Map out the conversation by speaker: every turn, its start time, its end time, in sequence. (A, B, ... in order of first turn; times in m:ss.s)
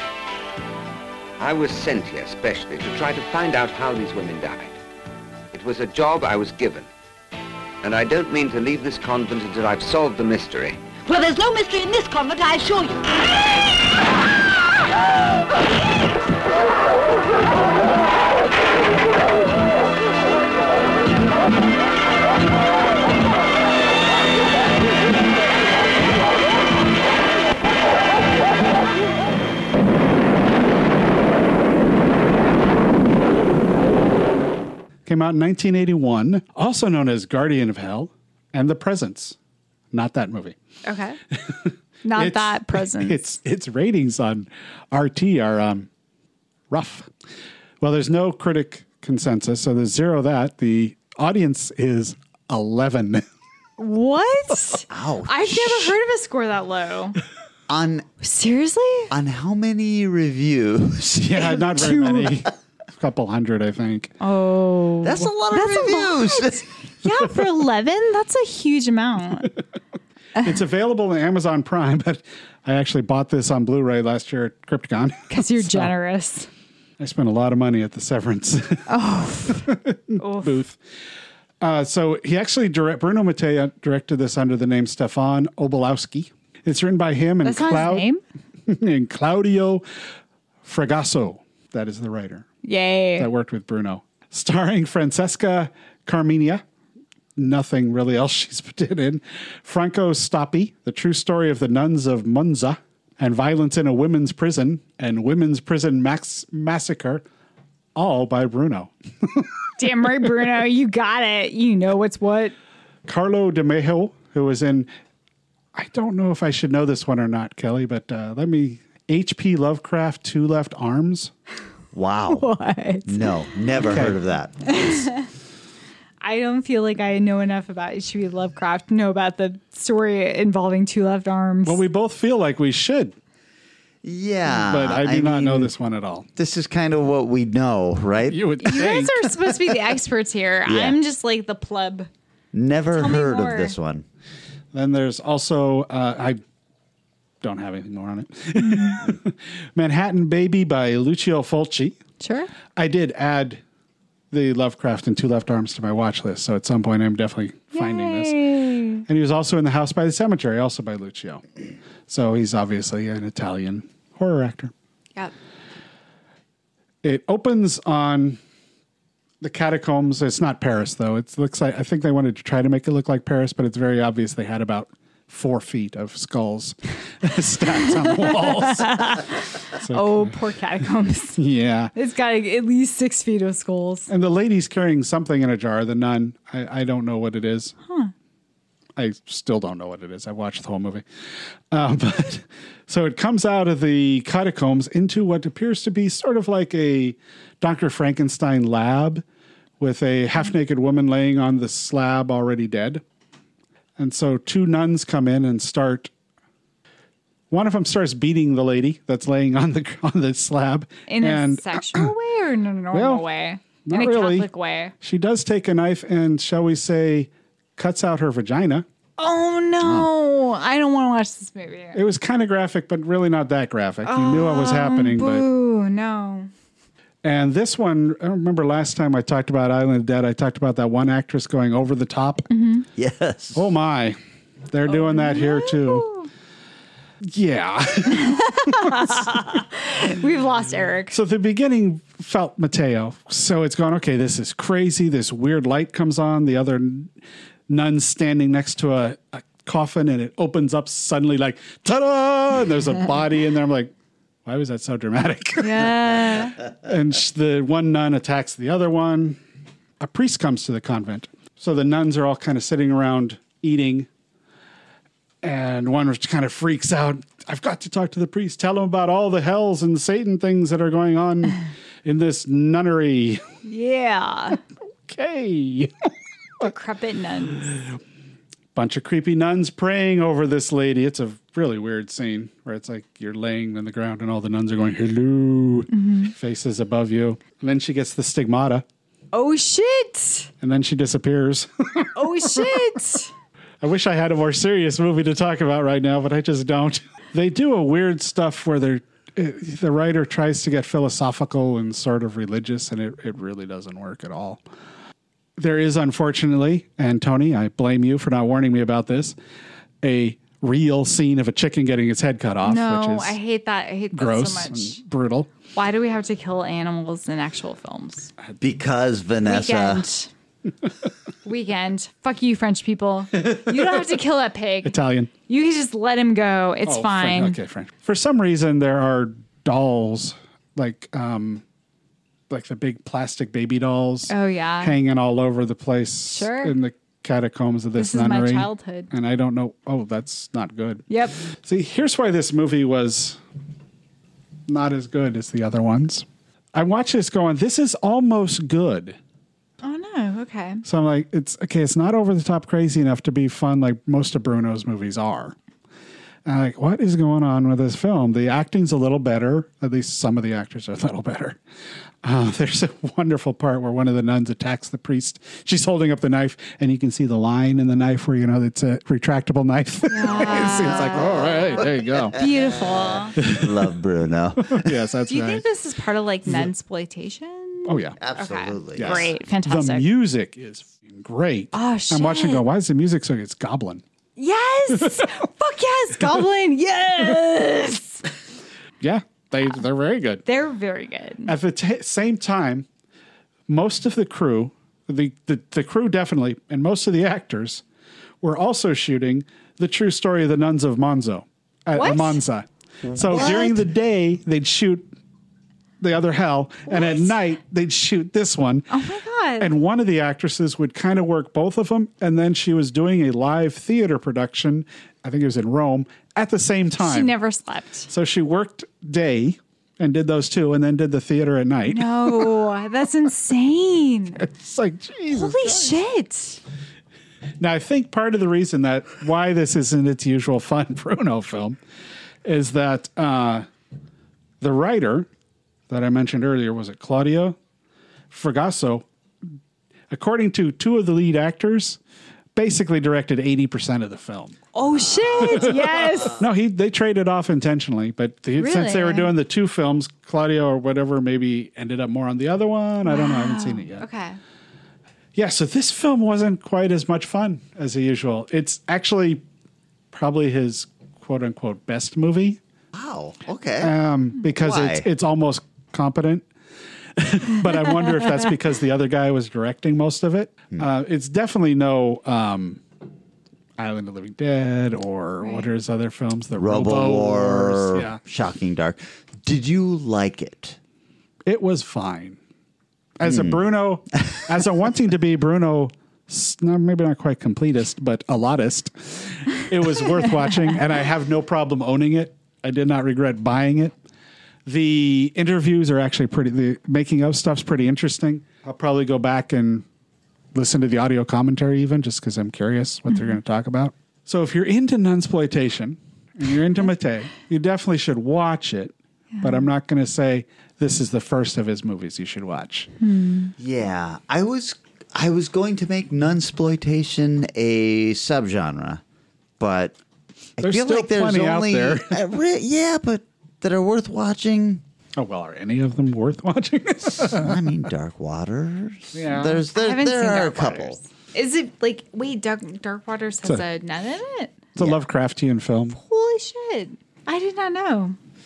0:01.4-0:04.8 A
0:05.5-0:06.9 A
0:07.8-0:10.8 A
0:11.0-0:13.0 B
0:35.0-0:39.4 C
0:39.9-0:40.6 C
0:40.8-0:41.2 D
0:41.3-0:45.9 C
0:42.0-0:43.2 D
0:46.7-0:47.1 C
0:47.8-0:53.2 C
0:53.8-0:57.2 D
0:54.9-0:55.9 E
0:57.7-0:58.0 E
0:58.2-0:59.1 D
0:59.1-1:01.9 E
1:01.2-1:04.1 C
1:01.7-1:02.3 D
1:04.2-1:09.5 D
1:05.0-1:06.6 E
1:10.4-1:15.9 C
1:15.3-1:16.5 D
1:17.0-1:18.9 C
1:18.9-1:20.6 D
1:19.5-1:20.8 C
1:21.6-1:28.1 C
1:27.4-1:28.2 D
1:28.7-1:29.8 C
1:30.6-1:32.5 C
1:32.6-1:33.3 D
1:33.2-1:36.6 C
1:37.4-1:47.2 C
1:47.9-1:49.5 C
1:49.8-1:52.5 D
1:53.1-1:54.9 C
1:55.7-2:01.3 C
2:01.9-2:02.5 E
2:02.3-2:03.3 D
2:03.1-2:05.0 E
2:03.8-2:04.2 C
2:04.6-2:05.3 D
2:06.2-2:11.8 D
2:11.6-2:13.1 C
2:14.0-2:15.7 E
2:14.5-2:16.3 C
2:16.4-2:18.4 E
2:18.3-2:19.8 C
2:18.6-2:22.1 D
2:20.7-2:21.0 E
2:22.5-2:24.0 E
2:22.9-2:23.7 D
2:24.7-2:26.4 C
2:27.4-2:32.0 C
2:28.6-2:29.0 D
2:32.2-2:32.5 D
2:32.8-2:33.6 C
2:34.3-2:38.4 C
2:37.7-2:39.0 D
2:39.0-2:41.4 C
2:42.1-2:44.7 C
2:47.0-2:48.4 C
2:49.4-3:00.4 C
2:58.0-3:01.4 D
3:01.4-3:01.9 C
3:01.9-3:04.1 D
3:04.1-3:07.7 C
3:09.0-3:11.0 C
3:11.7-3:19.2 C
3:19.8-3:23.0 C
3:24.0-3:26.1 C
3:27.5-3:32.1 C
3:31.1-3:34.9 D
3:32.9-3:33.2 C
3:33.8-3:34.5 C
3:35.0-3:38.8 C
3:39.2-3:42.0 D
3:39.8-3:40.1 E
3:41.9-3:45.4 C
3:44.0-3:46.5 D
3:47.2-3:52.5 C
3:52.5-3:52.8 D
3:53.0-3:53.7 E
3:53.5-3:54.2 C
3:54.7-3:56.1 C
3:54.9-3:56.3 D
3:57.3-3:59.4 C
3:58.1-4:01.2 D
4:01.1-4:07.1 C
4:07.7-4:13.9 C
4:14.4-4:19.4 C
4:15.6-4:16.6 D
4:20.0-4:24.1 C
4:25.4-4:33.4 C
4:33.6-4:34.6 D
4:35.1-4:36.1 C
4:36.6-4:37.7 D
4:38.7-4:48.8 C
4:45.9-4:46.3 D
4:49.3-4:50.5 D
4:50.6-4:52.8 C
4:52.1-4:53.3 D
4:53.8-5:04.6 C
5:05.6-5:09.3 C
5:10.0-5:13.4 C
5:12.6-5:15.0 D
5:14.1-5:15.5 C
5:15.7-5:18.3 D
5:18.6-5:20.0 E
5:19.4-5:20.3 D
5:21.4-5:25.0 D
5:23.4-5:24.0 C
5:24.8-5:25.3 C
5:25.5-5:27.6 D
5:26.8-5:31.6 C
5:32.5-5:41.0 C
5:34.3-5:34.9 D
5:36.3-5:36.7 D
5:38.0-5:39.1 D
5:41.1-5:41.4 D
5:41.6-5:43.4 C
5:44.7-5:49.2 C
5:49.8-5:50.8 D
5:50.8-5:55.5 C
5:56.4-6:01.6 C
6:02.2-6:12.3 C
6:10.1-6:11.6 D
6:10.4-6:14.9 E
6:12.3-6:13.3 D
6:13.4-6:13.7 C
6:14.6-6:15.6 C
6:15.3-6:20.0 D
6:17.9-6:18.2 C
6:18.2-6:19.3 E
6:19.0-6:24.0 C
6:21.7-6:22.6 D
6:24.4-6:28.2 D
6:25.0-6:25.3 C
6:29.0-6:30.4 C
6:30.4-6:31.5 D
6:31.5-6:32.8 C
6:33.7-6:37.8 C
6:38.4-6:45.1 C
6:41.9-6:42.4 D
6:43.0-6:43.8 E
6:46.0-6:48.9 C
6:46.9-6:47.3 D
6:48.9-6:49.7 D
6:49.6-6:57.3 C
6:57.0-6:58.1 D
6:58.1-7:02.5 C
7:01.9-7:04.4 D
7:04.4-7:05.9 C
7:05.3-7:06.6 D
7:07.6-7:11.8 C
7:12.4-7:13.6 C
7:14.6-7:15.3 C
7:15.9-7:17.6 C
7:18.3-7:19.0 C
7:20.1-7:22.0 C
7:22.6-7:24.6 C
7:24.7-7:26.4 D
7:25.4-7:34.0 C
7:28.6-7:29.3 D
7:33.0-7:34.4 D
7:35.4-7:39.4 C
7:40.1-7:42.6 C
7:42.9-7:43.9 E
7:43.8-7:46.4 C
7:44.6-7:45.0 E
7:47.2-7:52.8 C
7:53.8-7:58.2 C
7:55.4-7:55.6 D
7:56.5-8:00.8 E
8:01.4-8:02.4 C
8:03.2-8:13.9 C
8:03.2-8:03.6 E
8:14.6-8:19.8 C
8:20.5-8:32.9 C
8:29.3-8:29.7 D
8:33.0-8:33.5 D
8:33.6-8:39.0 E
8:39.6-8:40.0 E
8:40.6-8:44.8 E
8:40.6-8:42.3 C
8:45.2-8:47.6 C
8:47.0-8:51.0 E
8:49.1-8:49.6 C
8:49.7-8:54.6 D
8:54.8-8:56.0 C
8:55.9-8:58.2 D